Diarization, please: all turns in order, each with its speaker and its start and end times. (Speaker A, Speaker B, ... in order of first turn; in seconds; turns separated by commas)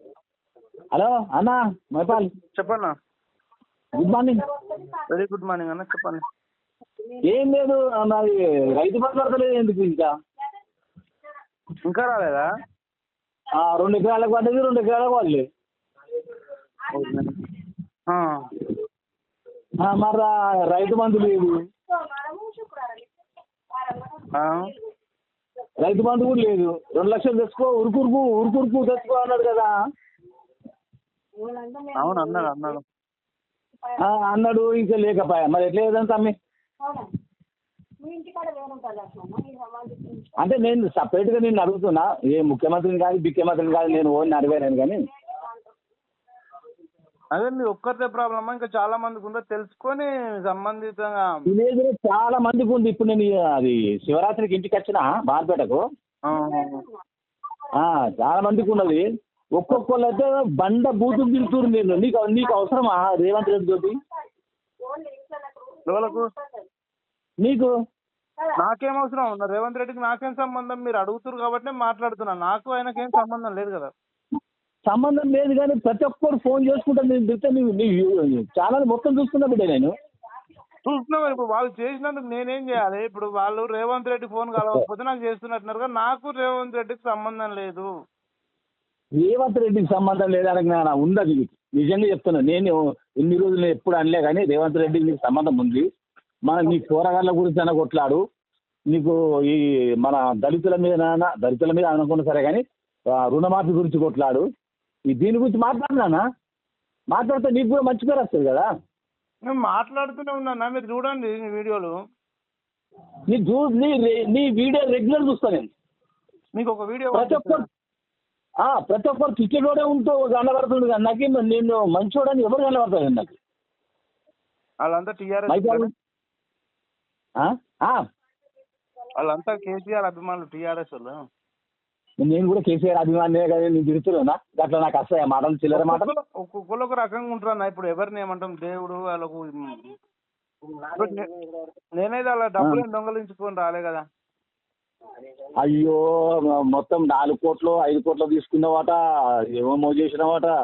Speaker A: 0.9-2.3, Speaker B: 2.5-2.9, Speaker A: 3.9-4.5, Speaker B: 5.1-6.2, Speaker A: 7.2-10.1, Speaker B: 11.8-12.4, Speaker A: 13.6-15.4, Speaker B: 16.9-17.4, Speaker A: 19.8-21.6, Speaker C: 21.9-23.1, Speaker C: 23.8-24.3, Speaker B: 24.4-24.7, Speaker A: 25.8-29.7, Speaker C: 31.4-32.6, Speaker B: 31.9-32.8, Speaker A: 34.0-36.3, Speaker C: 36.8-37.1, Speaker C: 38.0-40.2, Speaker A: 40.4-45.0, Speaker B: 47.3-51.4, Speaker A: 51.5-55.8, Speaker B: 56.3-56.8, Speaker A: 57.7-59.0, Speaker A: 59.6-64.0, Speaker C: 64.8-66.7, Speaker B: 65.8-66.3, Speaker A: 67.4-67.7, Speaker B: 68.6-73.9, Speaker A: 74.9-79.9, Speaker B: 80.8-87.9, Speaker A: 89.2-95.8, Speaker A: 96.5-98.2, Speaker A: 98.9-102.6, Speaker A: 103.2-104.4, Speaker A: 105.1-106.2, Speaker A: 107.1-108.7, Speaker B: 109.5-112.0, Speaker A: 113.3-115.7, Speaker B: 116.5-117.6, Speaker A: 117.1-117.6, Speaker A: 118.6-123.3, Speaker B: 124.8-125.9, Speaker A: 125.5-125.9, Speaker A: 127.4-128.0, Speaker B: 129.1-131.2, Speaker A: 132.2-136.1, Speaker B: 135.7-139.9, Speaker B: 140.9-141.2, Speaker B: 142.0-144.0, Speaker A: 145.6-146.0, Speaker A: 146.7-149.0, Speaker A: 149.6-150.5